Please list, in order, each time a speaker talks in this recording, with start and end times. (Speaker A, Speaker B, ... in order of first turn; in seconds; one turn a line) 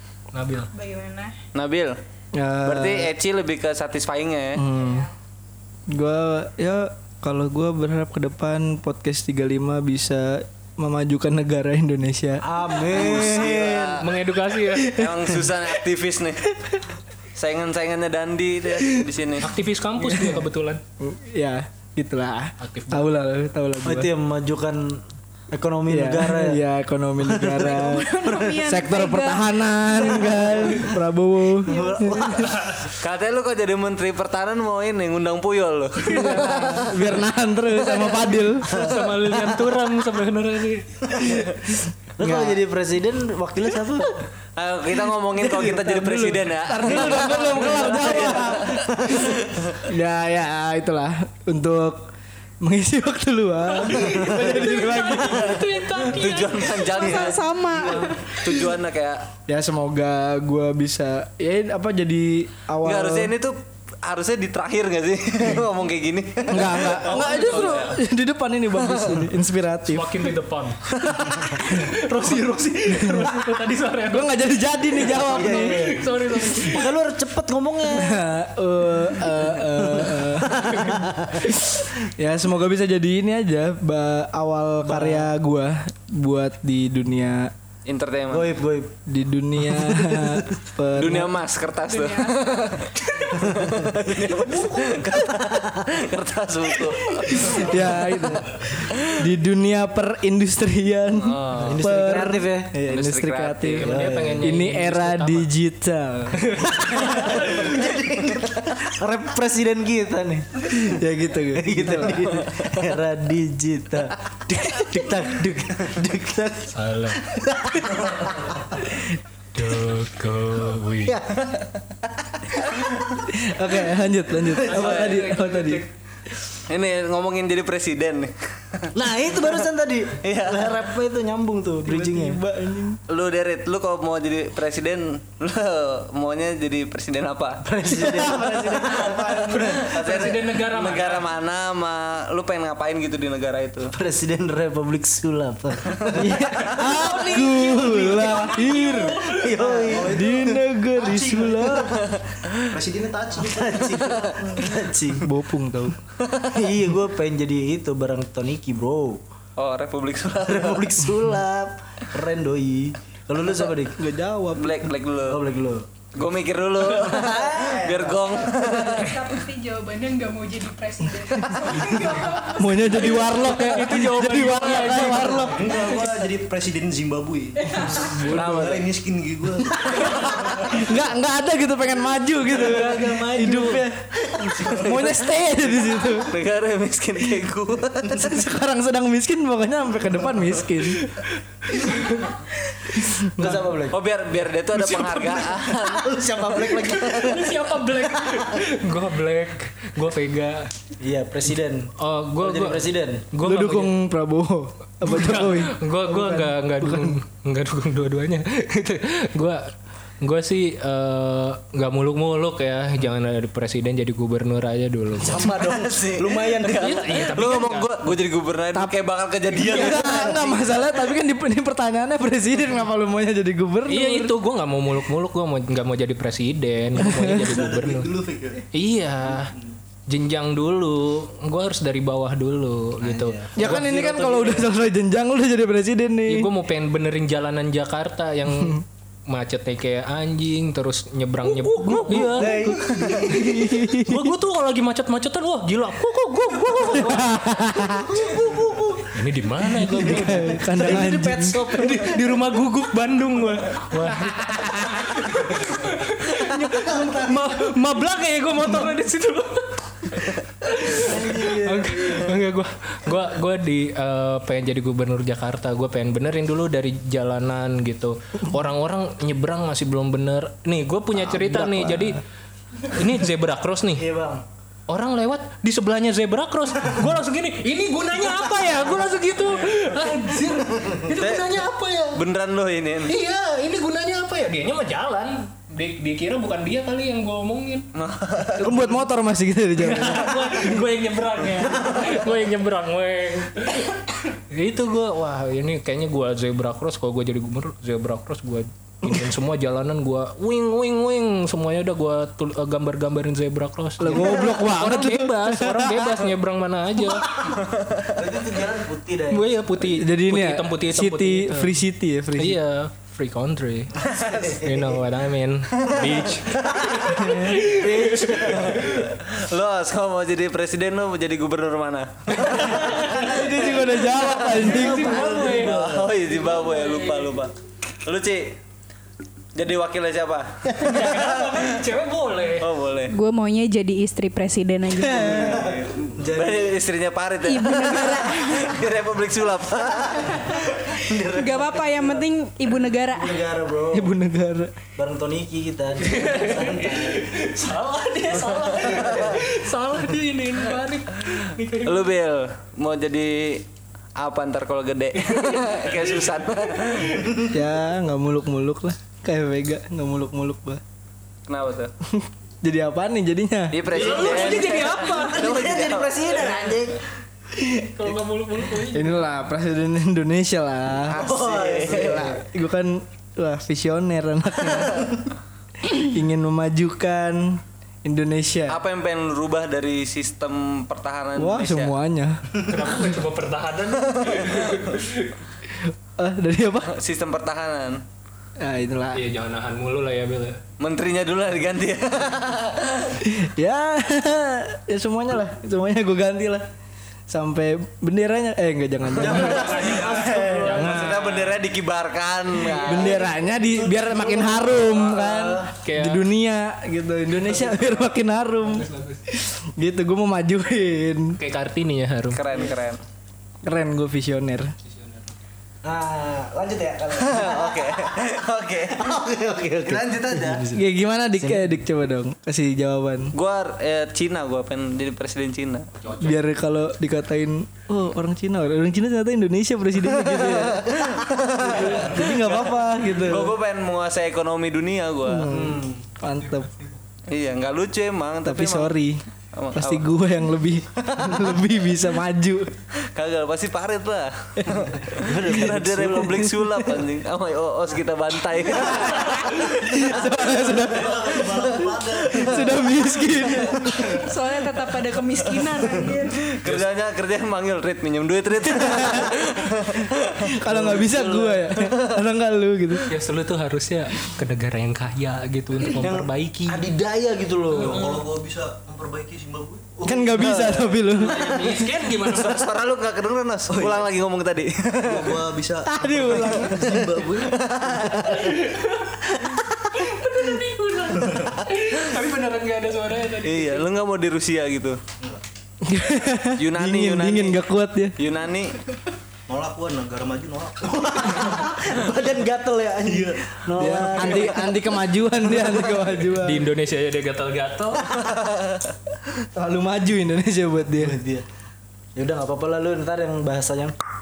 Speaker A: 0.3-0.7
Speaker B: 0.7-1.4
Speaker C: 1.5-2.0
Speaker D: 2.3-3.1
Speaker C: 2.6-4.6
Speaker D: 4.5-5.1
Speaker B: 4.8-5.0
Speaker D: 5.9-12.4
Speaker E: 12.4-14.0
Speaker C: 12.9-14.1
Speaker A: 14.0-15.0
Speaker D: 14.7-15.5
Speaker C: 14.8-16.5
Speaker C: 17.4-19.5
Speaker A: 19.4-20.8
Speaker D: 20.0-20.4
Speaker D: 21.0-24.1
Speaker A: 22.6-23.1
Speaker E: 23.8-26.6
Speaker D: 25.9-32.3
Speaker E: 27.2-28.4
Speaker B: 27.8-30.9
Speaker E: 31.6-32.6
Speaker B: 31.7-32.3
Speaker A: 32.4-32.9
Speaker C: 32.9-37.3
Speaker A: 36.0-36.5
Speaker D: 36.0-38.7
Speaker A: 38.7-41.2
Speaker E: 38.7-39.6
Speaker C: 41.3-41.5
Speaker E: 42.2-44.2
Speaker D: 42.2-42.6
Speaker C: 44.6-49.8
Speaker D: 45.5-55.7
Speaker E: 46.8-49.2
Speaker A: 53.7-57.3
Speaker C: 56.0-59.3
Speaker B: 56.9-58.5
Speaker D: 59.5-63.3
Speaker C: 62.8-67.7
Speaker D: 66.5-70.2
Speaker A: 67.0-68.0
Speaker C: 68.7-69.3
Speaker A: 69.9-74.4
Speaker C: 70.9-71.5
Speaker D: 72.9-73.5
Speaker D: 74.1-76.0
Speaker A: 75.0-76.9
Speaker E: 75.1-78.2
Speaker D: 77.9-80.7
Speaker E: 79.6-81.5
Speaker D: 81.4-87.5
Speaker E: 84.9-85.3
Speaker C: 87.9-88.6
Speaker E: 88.3-89.0
Speaker D: 89.1-91.4
Speaker E: 89.7-90.5
Speaker C: 91.0-98.1
Speaker B: 91.9-92.8
Speaker E: 93.3-95.8
Speaker D: 97.3-106.8
Speaker C: 98.8-99.1
Speaker C: 101.2-101.9
Speaker E: 101.5-102.8
Speaker C: 102.9-103.9
Speaker A: 103.8-105.5
Speaker E: 103.8-104.5
Speaker A: 106.5-106.8
Speaker E: 106.7-111.0
Speaker D: 110.7-112.4
Speaker E: 111.6-118.5
Speaker A: 116.7-117.2
Speaker A: 119.5-121.2
Speaker E: 121.1-121.5
Speaker D: 123.3-125.8
Speaker A: 124.6-125.9
Speaker C: 124.8-125.2
Speaker C: 126.7-128.9
Speaker E: 128.9-132.4
Speaker C: 130.2-130.8
Speaker D: 131.8-133.0
Speaker C: 133.1-137.7
Speaker E: 137.6-140.3
Speaker D: 137.9-139.4
Speaker C: 138.9-143.9
Speaker A: 139.4-141.3
Speaker E: 143.9-147.4
Speaker D: 146.1-149.3
Speaker A: 146.7-149.7
Speaker E: 149.3-150.5
Speaker F: 149.7-152.1
Speaker D: 150.0-151.9
Speaker F: 152.7-154.7
Speaker E: 153.3-155.3
Speaker D: 155.2-156.0
Speaker C: 156.2-156.5
Speaker E: 156.4-159.2
Speaker C: 159.6-161.0
Speaker E: 160.4-164.0
Speaker D: 164.0-164.9
Speaker C: 164.6-165.4
Speaker E: 165.2-165.9
Speaker C: 166.1-169.3
Speaker E: 166.8-168.9
Speaker B: 168.5-173.0
Speaker D: 172.5-175.7
Speaker A: 172.9-175.9
Speaker F: 175.5-180.8
Speaker E: 177.9-178.8
Speaker D: 178.1-178.5
Speaker D: 180.6-184.0
Speaker E: 182.5-184.9
Speaker D: 184.6-186.3
Speaker C: 184.7-188.3
Speaker D: 188.1-191.0
Speaker A: 191.0-192.3
Speaker D: 192.9-193.6
Speaker E: 193.4-194.0
Speaker C: 193.4-197.0
Speaker A: 194.8-195.4
Speaker E: 195.7-197.6
Speaker A: 196.8-200.7
Speaker E: 198.2-198.5
Speaker E: 201.0-203.3
Speaker A: 202.0-203.9
Speaker D: 203.4-207.2
Speaker A: 205.0-209.7
Speaker A: 210.2-215.5
Speaker E: 215.2-217.3
Speaker C: 215.3-220.6
Speaker A: 216.7-218.1
Speaker D: 219.5-224.4
Speaker A: 223.9-228.1
Speaker D: 227.0-227.5
Speaker F: 227.3-228.7
Speaker A: 228.7-229.5
Speaker F: 229.3-229.7
Speaker A: 230.1-234.3
Speaker E: 233.0-234.7
Speaker D: 233.6-236.5
Speaker A: 236.3-242.8
Speaker D: 241.5-244.3
Speaker E: 241.8-243.8
Speaker C: 243.0-243.3
Speaker A: 244.0-247.3
Speaker E: 246.9-249.1
Speaker D: 246.9-248.1
Speaker A: 249.1-251.0
Speaker D: 249.8-251.7
Speaker E: 249.9-252.3
Speaker A: 251.7-272.2
Speaker E: 256.8-257.3
Speaker E: 260.9-262.3
Speaker D: 271.2-272.2
Speaker A: 272.8-274.1
Speaker E: 274.0-274.4
Speaker A: 274.9-282.2
Speaker C: 281.1-281.5
Speaker C: 282.1-283.1
Speaker A: 283.1-287.9
Speaker C: 287.9-289.0
Speaker D: 288.6-290.4
Speaker A: 289.8-307.4
Speaker D: 304.0-306.2
Speaker E: 307.5-309.6
Speaker A: 309.3-311.8
Speaker D: 310.0-312.6
Speaker A: 312.4-319.1
Speaker E: 314.1-314.8
Speaker C: 314.1-314.5
Speaker E: 317.2-318.9
Speaker C: 318.5-323.0
Speaker A: 322.4-323.7
Speaker D: 323.1-325.3
Speaker C: 324.2-324.5
Speaker A: 324.3-327.3
Speaker E: 324.5-326.1
Speaker C: 325.4-327.5
Speaker C: 328.1-328.6
Speaker C: 329.6-331.8
Speaker A: 330.7-332.7
Speaker C: 332.6-333.1
Speaker B: 333.1-335.6
Speaker E: 335.0-336.8
Speaker C: 335.2-341.0
Speaker B: 337.4-338.9
Speaker E: 340.9-342.3
Speaker B: 341.2-343.4
Speaker E: 343.1-344.1
Speaker D: 343.9-344.8
Speaker E: 344.9-347.3
Speaker A: 346.0-352.2
Speaker E: 348.4-349.4
Speaker C: 348.8-349.3
Speaker C: 351.8-353.6
Speaker C: 354.2-357.4
Speaker A: 355.2-357.4
Speaker D: 357.5-360.8
Speaker C: 361.5-361.9
Speaker D: 362.1-363.9
Speaker C: 363.7-366.5
Speaker A: 363.9-365.5
Speaker E: 363.9-367.0
Speaker D: 367.6-367.9
Speaker A: 367.7-369.3
Speaker D: 368.9-371.2
Speaker C: 371.1-372.3
Speaker E: 371.1-372.4
Speaker D: 371.9-375.2
Speaker D: 375.8-378.8
Speaker C: 378.7-381.9
Speaker D: 381.4-382.5
Speaker A: 382.5-385.4
Speaker C: 384.2-384.6
Speaker D: 385.8-386.9
Speaker C: 386.9-388.0
Speaker D: 388.6-389.2
Speaker A: 389.1-390.6
Speaker C: 390.8-393.2
Speaker D: 393.2-396.7
Speaker D: 397.3-399.8
Speaker A: 399.2-401.6
Speaker E: 399.3-401.0
Speaker C: 399.3-403.3
Speaker F: 399.6-400.5
Speaker D: 400.7-401.1
Speaker E: 402.6-405.7
Speaker D: 402.8-411.4
Speaker A: 405.8-406.3
Speaker A: 408.7-409.2
Speaker A: 411.3-412.4
Speaker C: 412.3-413.0
Speaker D: 413.6-414.7
Speaker A: 414.8-415.3
Speaker E: 415.8-418.4
Speaker C: 417.2-419.1
Speaker E: 418.9-420.8
Speaker C: 419.8-420.7
Speaker D: 420.7-423.3
Speaker E: 421.4-421.7
Speaker C: 423.3-425.9
Speaker A: 426.0-426.4
Speaker D: 426.2-430.9
Speaker C: 430.5-435.5
Speaker D: 431.6-433.6
Speaker D: 435.3-436.7
Speaker E: 435.5-436.0
Speaker C: 437.3-438.9
Speaker D: 438.4-439.2
Speaker C: 439.6-440.1
Speaker D: 439.7-442.7
Speaker C: 443.0-451.6
Speaker E: 445.1-446.4
Speaker D: 446.5-447.0
Speaker D: 449.6-454.2
Speaker F: 450.2-453.1
Speaker B: 454.1-456.5
Speaker C: 456.4-460.5
Speaker D: 458.7-459.3
Speaker D: 460.5-463.1
Speaker E: 460.7-461.6
Speaker A: 463.1-466.9
Speaker E: 465.9-468.1
Speaker F: 467.7-470.8
Speaker A: 467.7-468.3
Speaker D: 470.0-471.7
Speaker C: 470.4-470.9
Speaker A: 471.1-472.7
Speaker C: 472.3-475.4
Speaker F: 473.7-474.0
Speaker F: 475.0-478.2
Speaker D: 475.8-477.2
Speaker E: 476.9-477.5
Speaker C: 477.7-478.1
Speaker A: 478.2-483.9
Speaker C: 483.4-485.0
Speaker D: 485.8-488.1
Speaker C: 486.6-487.6
Speaker C: 488.2-488.8
Speaker F: 489.5-492.1
Speaker E: 491.1-494.8
Speaker F: 493.0-494.4
Speaker D: 493.8-496.7
Speaker A: 496.4-498.1
Speaker D: 499.6-501.2
Speaker E: 501.0-501.4
Speaker E: 502.2-504.0